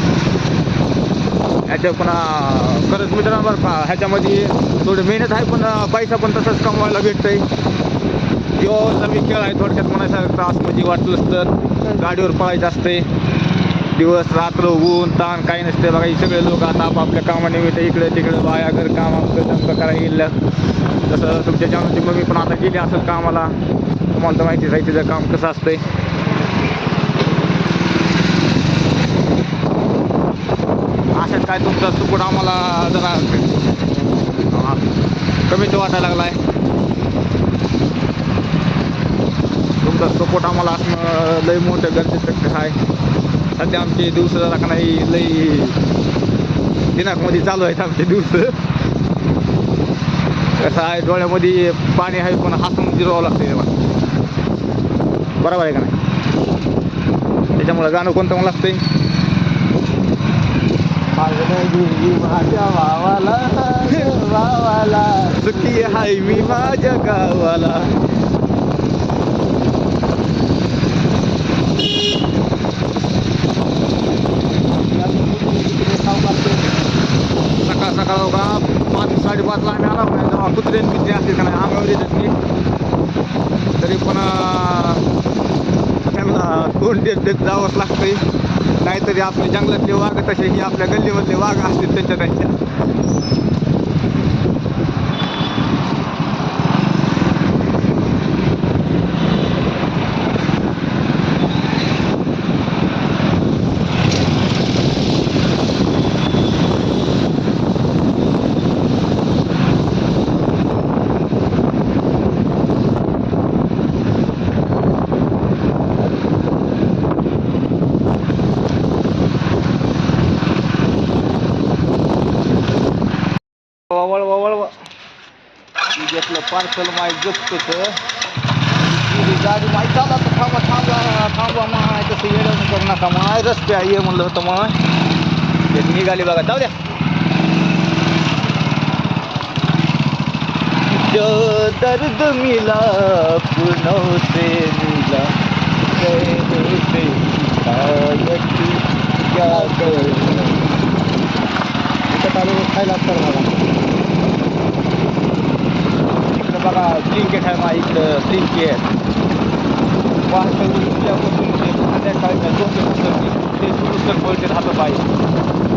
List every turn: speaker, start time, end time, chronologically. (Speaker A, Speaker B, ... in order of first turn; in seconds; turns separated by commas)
Speaker A: 1.7-7.5, Speaker A: 8.6-13.0, Speaker A: 13.9-20.4, Speaker A: 21.1-23.5, Speaker A: 24.1-25.9, Speaker A: 31.1-33.5, Speaker A: 34.5-34.9, Speaker A: 35.5-36.4, Speaker A: 39.8-42.8, Speaker A: 43.5-45.8, Speaker A: 46.9-48.6, Speaker A: 50.5-53.7, Speaker A: 55.4-55.9, Speaker A: 57.5-58.8, Speaker B: 61.2-67.3, Speaker A: 65.3-68.0, Speaker B: 74.8-76.7, Speaker A: 77.6-82.4, Speaker A: 83.8-85.0, Speaker A: 86.1-88.2, Speaker A: 88.8-92.5, Speaker A: 123.9-124.7, Speaker A: 126.0-128.0, Speaker A: 128.8-134.8, Speaker A: 135.7-136.7, Speaker A: 140.9-145.3, Speaker A: 145.9-150.6, Speaker B: 149.5-150.6, Speaker B: 152.1-153.6, Speaker A: 156.3-158.9, Speaker A: 160.3-165.1